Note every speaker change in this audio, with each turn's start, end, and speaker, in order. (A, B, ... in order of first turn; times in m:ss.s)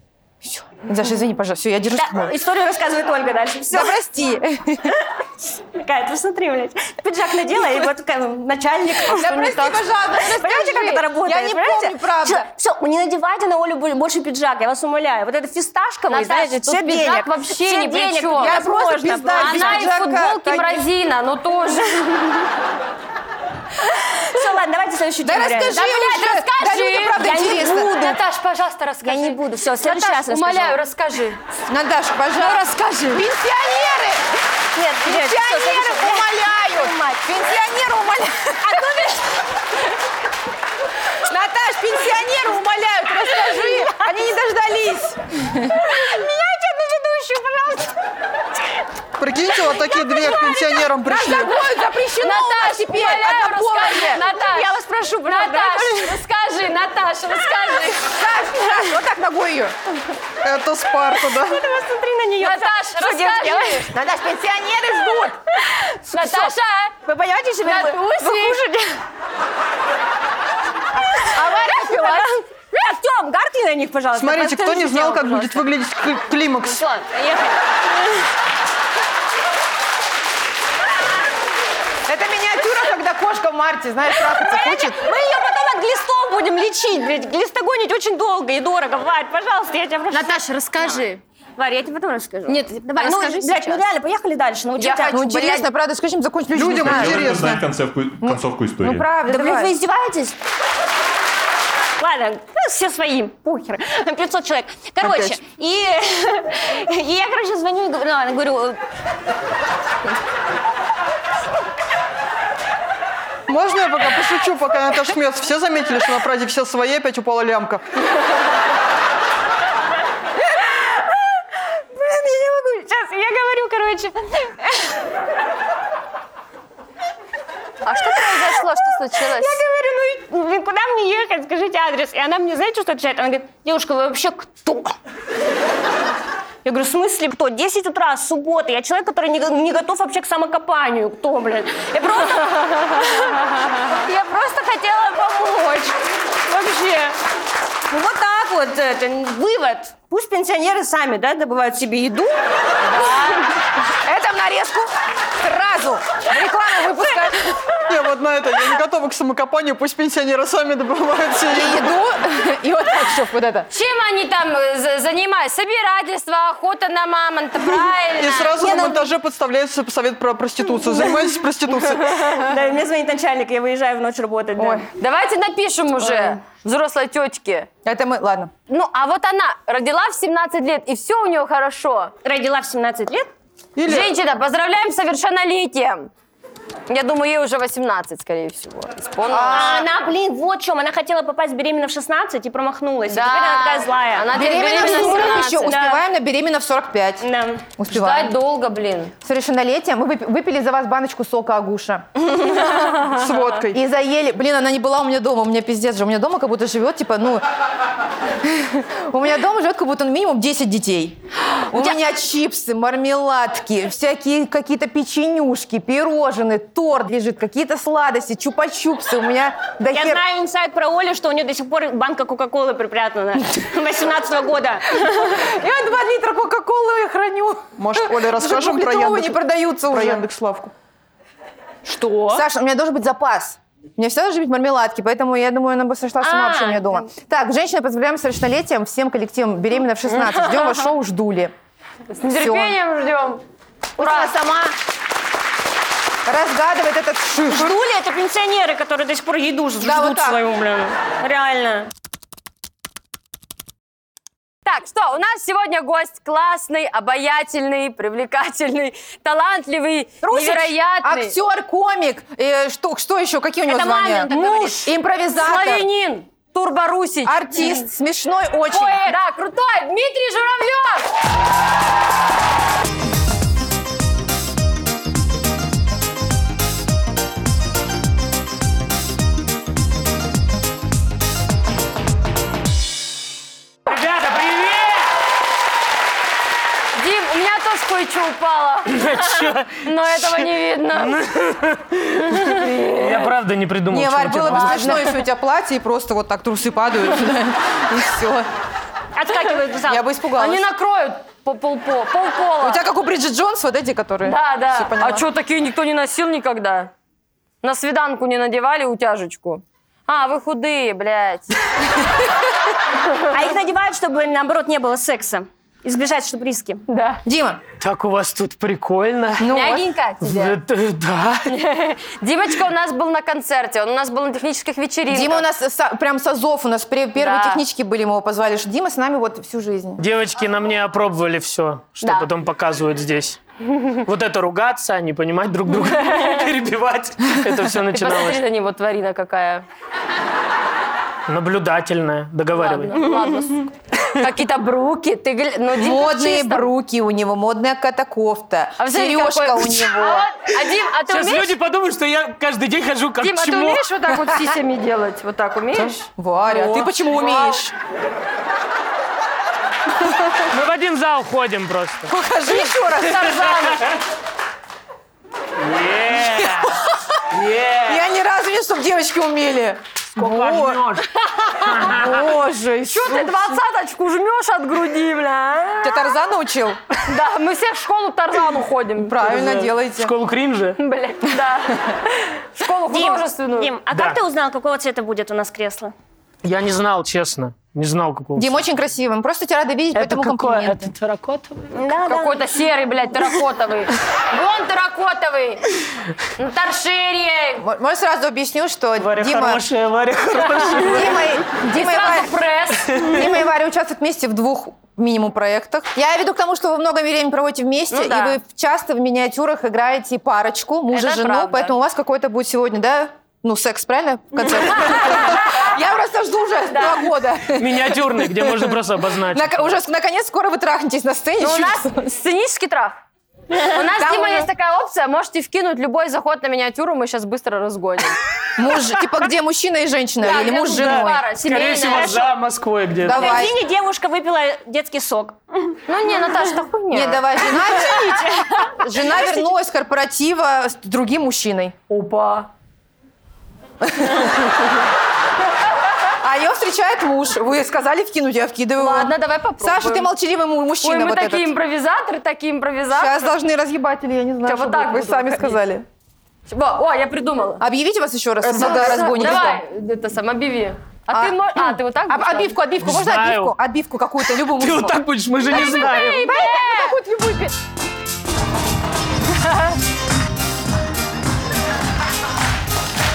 0:00.4-0:02.3 A
0:01.9-0:04.0 B
0:03.7-0:05.0 A
0:04.9-0:09.7 B
0:09.1-0:12.5 A
0:09.2-0:09.8 C
0:10.2-0:19.9 B
0:16.1-0:18.6 C
0:18.4-0:20.8 A
0:19.2-0:22.4 C
0:23.8-0:25.9 B
0:25.2-0:27.9 A
0:25.7-0:31.4 C
0:27.2-0:28.2 B
0:29.0-0:30.8 B
0:31.7-0:34.3 A
0:32.4-0:33.2 C
0:34.7-0:37.3 B
0:35.0-0:39.0 A
0:38.7-0:39.1 B
0:41.3-0:45.9 A
0:45.9-0:47.4 B
0:49.2-0:51.5 D
0:51.0-0:54.2 A
0:52.2-0:58.1 C
0:54.2-0:56.2 B
0:58.0-0:59.7 A
1:00.4-1:01.6 D
1:01.2-1:03.9 B
1:02.4-1:03.9 C
1:03.9-1:05.4 A
1:05.6-1:06.5 B
1:06.1-1:07.0 C
1:07.0-1:09.0 B
1:07.6-1:08.6 C
1:11.2-1:12.3 C
1:11.2-1:15.2 B
1:11.3-1:11.7 A
1:14.1-1:16.8 D
1:14.7-1:15.6 C
1:16.7-1:18.3 B
1:22.1-1:25.0 A
1:24.2-1:30.4 B
1:30.1-1:31.2 C
1:31.6-1:35.6 B
1:32.5-1:33.8 C
1:34.8-1:35.6 C
1:35.1-1:37.4 A
1:36.5-1:37.6 D
1:36.7-1:39.1 E
1:38.2-1:39.7 A
1:39.3-1:40.4 B
1:42.0-1:48.8 B
1:45.0-1:45.3 D
1:53.5-1:57.8 D
2:00.5-2:05.0 B
2:07.8-2:09.6 C
2:09.2-2:15.0 B
2:16.6-2:27.2 B
2:27.9-2:32.4 B
2:32.9-2:33.5 C
2:34.0-2:37.5 A
2:36.9-2:37.6 B
2:37.9-2:41.9 D
2:41.5-2:43.7 A
2:43.7-2:48.8 C
2:48.1-2:52.4 D
2:48.6-2:49.1 B
2:52.0-2:54.8 B
2:54.6-2:54.8 A
2:54.9-2:57.7 C
2:57.8-2:58.5 A
2:58.7-3:02.1 C
3:02.2-3:03.3 B
3:03.8-3:04.1 D
3:03.8-3:06.1 C
3:06.9-3:09.8 C
3:09.3-3:09.8 A
3:09.5-3:16.0 B
3:13.1-3:15.7 C
3:14.3-3:17.2 A
3:17.2-3:17.7 B
3:17.8-3:18.3 A
3:17.9-3:19.1 C
3:19.2-3:22.2 A
3:22.4-3:23.8 D
3:23.7-3:27.4 A
3:28.4-3:40.2 A
3:39.9-3:45.4 B
3:45.2-3:50.2 A
3:47.8-3:50.7 D
3:52.3-4:01.5 A
3:56.2-3:57.0 B
4:02.1-4:03.4 C
4:02.3-4:02.7 A
4:04.0-4:04.4 C
4:04.0-4:04.7 B
4:06.2-4:07.8 A
4:07.5-4:11.9 B
4:09.8-4:10.4 A
4:14.6-4:21.4 C
4:20.2-4:25.8 A
4:23.6-4:24.9 B
4:24.3-4:24.7 C
4:25.4-4:27.8 C
4:27.2-4:29.1 A
4:28.7-4:31.0 C
4:43.8-4:45.1 F
4:47.0-4:51.2 C
4:48.9-4:55.2 F
4:52.3-4:53.3 C
4:53.9-4:58.5 A
4:59.1-5:00.0 B
4:59.9-5:00.7 A
5:00.4-5:02.8 C
5:02.6-5:05.2 A
5:04.2-5:06.9 C
5:07.6-5:11.6 C
5:13.2-5:16.8 B
5:16.9-5:17.2 C
5:17.2-5:17.6 A
5:17.8-5:19.5 F
5:19.4-5:19.8 A
5:19.5-5:20.6 C
5:20.2-5:21.6 F
5:21.5-5:25.4 C
5:25.1-5:30.0 A
5:27.2-5:27.6 C
5:30.0-5:38.4 F
5:32.0-5:32.3 C
5:35.8-5:36.3 C
5:37.9-5:39.6 C
5:41.3-5:43.1 F
5:42.5-5:46.7 C
5:45.8-5:50.3 A
5:48.8-5:51.5 C
5:51.1-5:53.9 F
5:53.2-5:56.0 C
5:55.7-5:57.7 A
5:56.5-5:56.9 F
5:57.1-5:57.6 C
6:00.4-6:02.1 F
6:02.1-6:03.5 A
6:02.5-6:03.9 C
6:03.3-6:04.0 F
6:05.6-6:06.8 F
6:06.4-6:06.9 A
6:07.3-6:08.0 F
6:07.8-6:10.8 A
6:10.1-6:12.3 F
6:11.4-6:11.7 C
6:11.8-6:13.6 A
6:12.9-6:16.1 C
6:15.8-6:16.8 A
6:17.0-6:19.2 C
6:19.0-6:20.1 A
6:19.2-6:20.8 F
6:20.8-6:23.7 C
6:22.9-6:25.9 B
6:23.9-6:24.2 F
6:26.4-6:28.6 F
6:28.4-6:30.9 A
6:29.9-6:31.7 F
6:31.7-6:32.5 B
6:32.0-6:35.7 C
6:36.4-6:37.6 C
6:37.6-6:39.6 A
6:39.0-6:41.3 F
6:40.6-6:41.0 C
6:40.8-6:42.3 A
6:41.6-6:43.3 C
6:42.9-6:43.2 F
6:43.0-6:58.7 A
6:47.9-6:48.4 C
6:50.9-6:51.7 C
6:54.7-6:55.6 C
6:56.7-6:57.1 C
6:57.5-6:59.7 F
6:59.3-7:02.1 A
7:01.4-7:03.0 C
7:03.6-7:08.2 C
7:04.0-7:04.5 A
7:08.6-7:11.2 A
7:10.2-7:12.3 C
7:10.7-7:13.3 F
7:11.8-7:12.2 B
7:13.0-7:13.5 A
7:13.1-7:15.8 B
7:15.9-7:17.2 C
7:16.9-7:21.7 A
7:18.0-7:18.7 B
7:21.9-7:22.5 C
7:23.8-7:24.4 A
7:26.2-7:31.5 A
7:28.8-7:30.1 C
7:30.8-7:33.3 C
7:32.9-7:35.8 A
7:34.4-7:35.6 C
7:36.5-7:37.6 C
7:37.6-7:39.6 A
7:38.4-7:39.5 D
7:38.5-7:42.6 C
7:41.1-7:45.0 A
7:42.8-7:43.5 F
7:44.3-7:46.3 F
7:45.5-7:47.0 C
7:45.5-7:47.5 A